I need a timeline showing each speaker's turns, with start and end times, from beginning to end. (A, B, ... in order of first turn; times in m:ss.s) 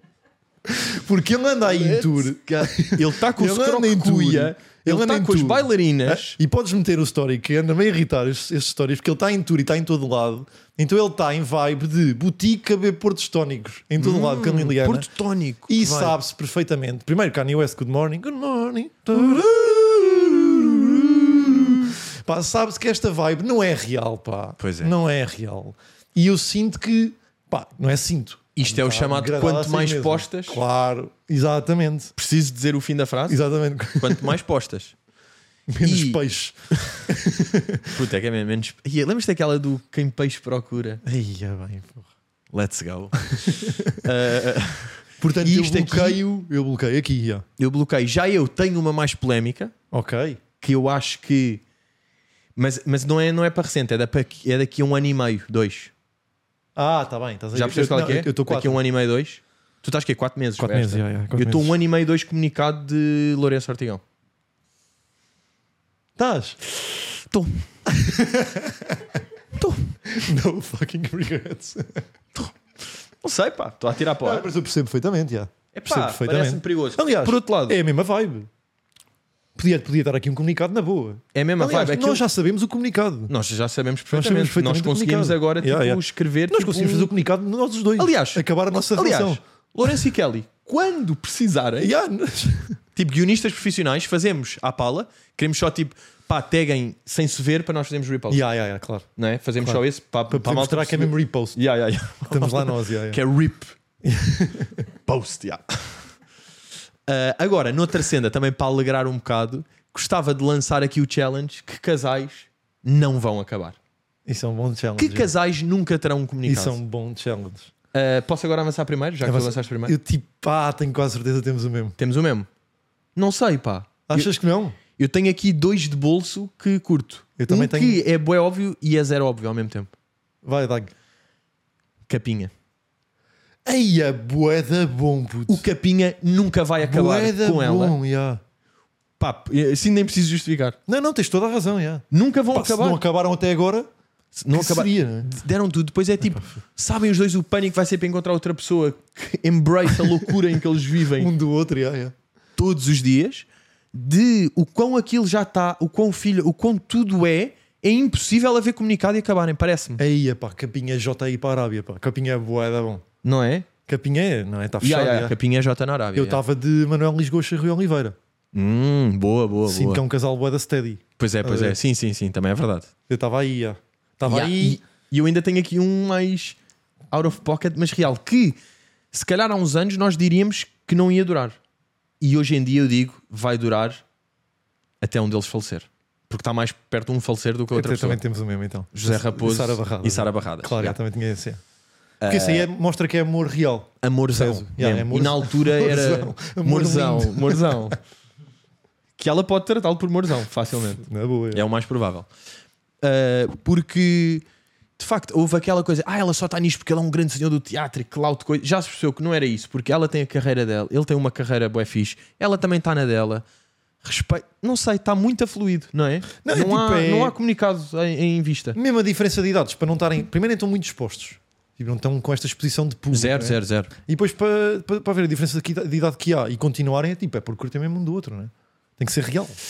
0:00.6-0:15.1 A
0:01.6-0:06.4 B
0:14.0-0:16.2 B
0:15.7-0:32.1 A
0:24.6-0:24.9 B
0:28.6-0:30.6 B
0:32.2-0:33.4 B
0:33.3-0:34.3 A
0:34.0-0:34.9 B
0:35.7-0:37.9 A
0:35.8-0:36.2 B
0:36.8-0:37.0 B
0:37.9-0:41.0 B
0:41.0-0:42.1 A
0:42.5-0:46.2 B
0:43.3-0:44.0 A
0:45.2-0:47.4 A
0:47.6-0:49.7 B
0:49.9-0:50.4 A
0:50.6-0:51.6 B
0:52.6-0:55.9 B
0:56.8-0:58.8 A
0:57.5-1:04.0 B
1:00.6-1:01.7 A
1:06.2-1:06.6 A
1:07.1-1:07.6 B
1:07.9-1:09.2 A
1:09.5-1:09.9 B
1:10.1-1:12.0 A
1:13.2-1:14.5 B
1:14.2-1:18.5 A
1:15.7-1:17.8 B
1:19.6-1:23.3 A
1:21.3-1:22.2 B
1:23.3-1:27.1 B
1:24.1-1:29.4 A
1:28.0-1:31.9 B
1:31.8-1:32.8 A
1:32.9-1:38.4 B
1:38.3-1:39.1 A
1:39.2-1:43.7 B
1:39.6-1:41.6 A
1:42.2-1:43.2 A
1:44.0-1:44.8 A
1:45.0-1:46.1 B
1:47.1-1:53.8 B
1:54.2-1:55.3 A
1:55.0-1:56.8 B
1:56.4-1:57.7 A
1:57.9-2:00.0 B
1:59.2-2:02.0 A
2:02.0-2:02.5 B
2:03.2-2:04.3 B
2:04.1-2:04.8 A
2:05.0-2:09.9 B
2:07.4-2:08.0 A
2:10.4-2:10.9 A
2:12.1-2:12.5 B
2:13.6-2:15.6 A
2:15.5-2:18.0 B
2:16.8-2:18.4 A
2:19.2-2:20.8 B
2:20.9-2:23.9 A
2:22.1-2:23.0 B
2:24.4-2:31.3 B
2:24.5-2:25.3 A
2:31.2-2:32.1 A
2:32.6-2:40.0 B
2:40.0-2:43.0 A
2:43.2-2:43.7 B
2:43.9-2:45.3 A
2:44.8-2:46.4 B
2:46.1-2:48.2 A
2:48.5-2:50.0 B
2:49.7-2:51.8 A
2:51.2-2:52.9 B
2:53.1-2:54.8 A
2:54.2-2:56.6 B
2:57.1-2:58.6 B
2:59.1-3:01.6 B
3:02.2-3:04.0 B
3:05.0-3:08.2 B
3:07.7-3:11.6 A
3:08.9-3:11.0 B
3:12.2-3:12.7 B
3:12.2-3:18.0 A
3:14.0-3:18.0 B
3:19.2-3:22.3 B
3:21.0-3:21.6 A
3:23.0-3:24.4 B
3:25.0-3:33.4 B
3:34.0-3:38.8 B
3:36.4-3:37.4 A
3:38.7-3:49.6 A
3:43.1-3:43.9 B